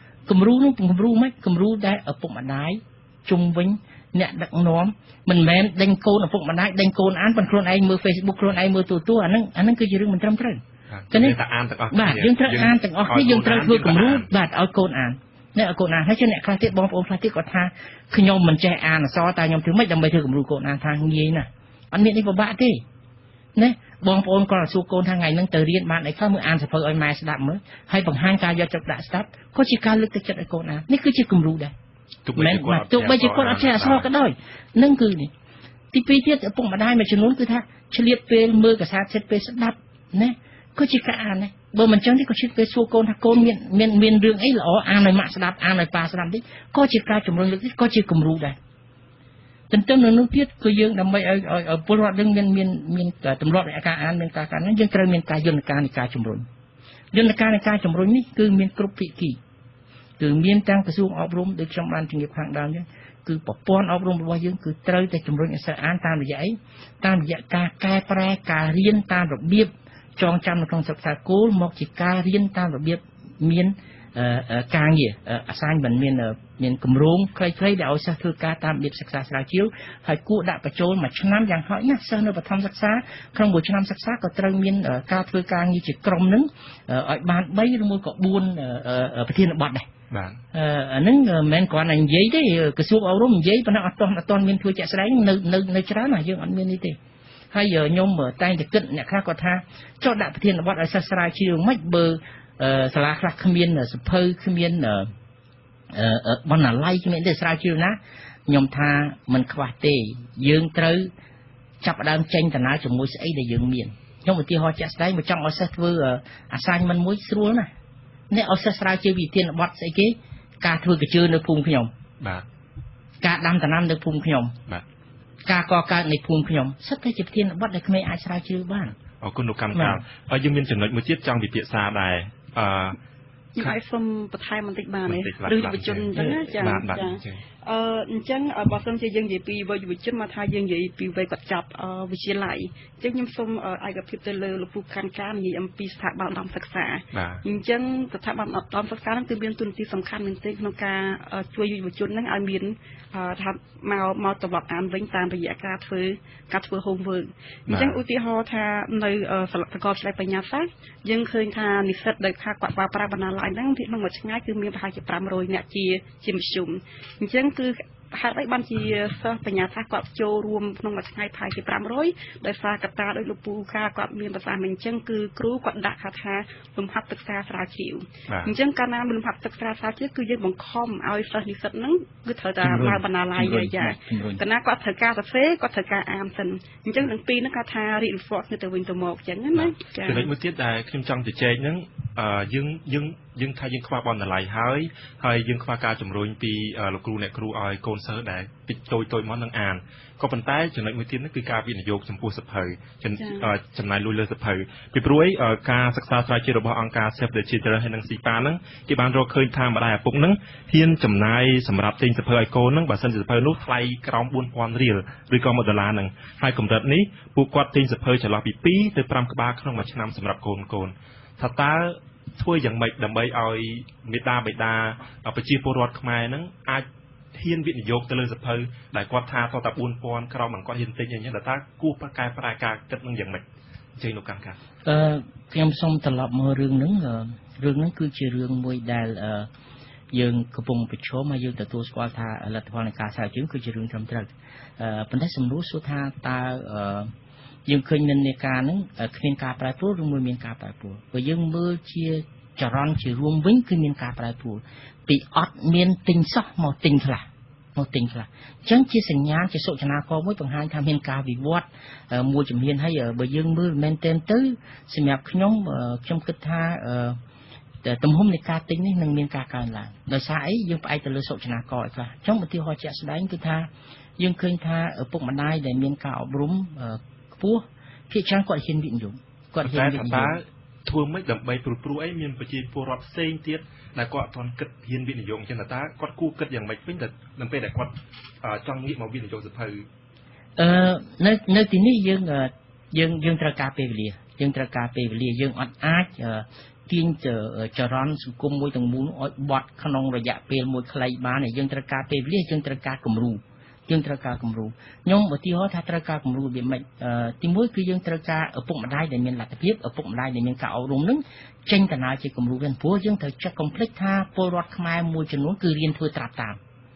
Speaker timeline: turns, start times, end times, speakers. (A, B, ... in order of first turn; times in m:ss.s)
0:00.3-0:11.4 A
0:10.9-0:14.3 B
0:11.9-0:22.8 A
0:23.6-0:31.7 A
0:32.2-0:34.1 B
0:32.4-0:35.3 A
0:35.9-0:48.6 A
0:49.7-0:56.4 A
0:57.1-0:59.4 A
1:00.2-1:29.9 A
1:30.1-1:30.4 B
1:30.5-1:37.0 A
1:37.5-1:45.1 A
1:45.9-1:51.1 A
1:51.8-1:57.7 A
1:58.3-2:01.9 A
2:02.2-2:02.4 B
2:03.2-2:04.6 A
2:05.4-2:08.9 A
2:09.1-2:13.0 B
2:09.7-2:10.0 A
2:13.6-3:10.3 C
2:15.1-2:17.4 B
2:27.1-2:27.4 B
2:37.7-2:38.0 B
2:58.3-2:58.5 B
3:02.6-3:04.4 A
3:09.6-3:53.4 B
3:23.2-3:23.5 C
3:54.0-3:54.6 B
3:54.8-3:59.5 A
4:00.1-4:07.1 A
4:07.7-4:27.2 A
4:27.8-4:40.4 A
4:39.6-4:49.8 B
4:50.6-5:16.6 A